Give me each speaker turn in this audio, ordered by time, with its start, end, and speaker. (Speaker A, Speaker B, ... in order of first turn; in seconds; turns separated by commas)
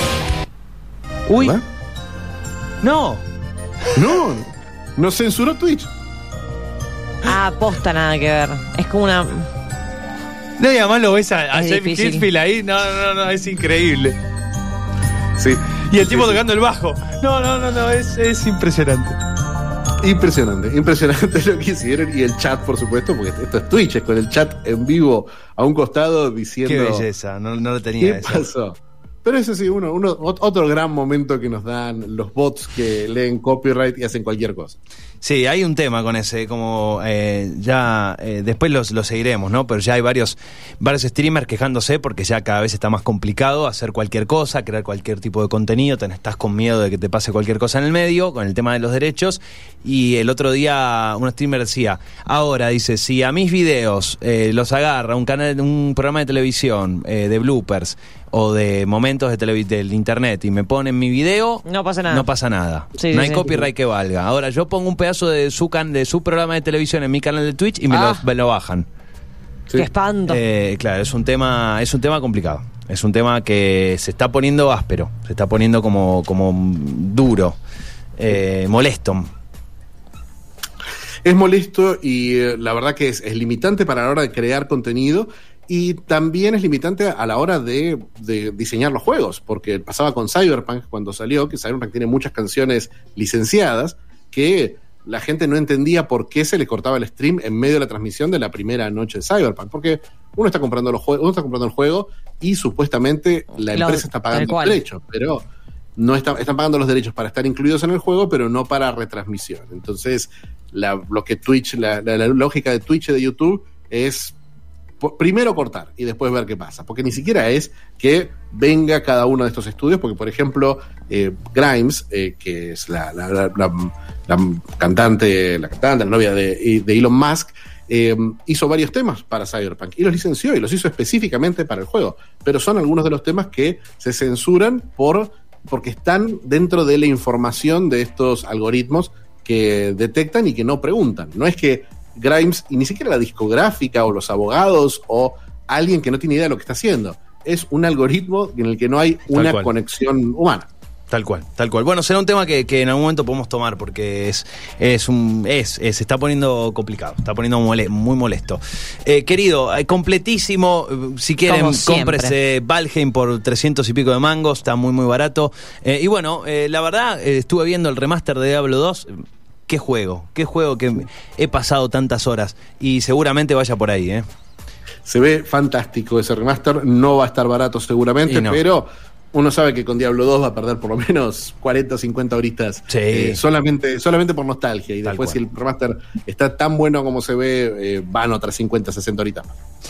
Speaker A: 1.3-1.6, Speaker B: 1.4-1.6, Speaker A: 2.8-3.2, Speaker B: 3.9-5.9, Speaker C: 7.2-9.5, Speaker A: 10.6-14.2, Speaker C: 11.5-12.2, Speaker B: 15.4-16.4, Speaker A: 15.9-19.2, Speaker B: 20.0-27.1, Speaker A: 26.6-28.5, Speaker B: 28.0-34.8, Speaker A: 35.2-68.9, Speaker C: 61.6-62.3, Speaker C: 63.0-63.6, Speaker C: 67.9-68.2, Speaker C: 69.8-70.4, Speaker A: 70.3-77.6, Speaker A: 78.2-79.3, Speaker B: 81.2-105.5, Speaker C: 103.7-104.8, Speaker B: 106.0-114.4, Speaker B: 115.0-150.7, Speaker A: 149.3-149.7, Speaker A: 151.1-174.3, Speaker C: 161.5-162.3, Speaker B: 175.1-189.6, Speaker A: 178.3-178.6, Speaker A: 182.9-183.4, Speaker A: 185.0-185.4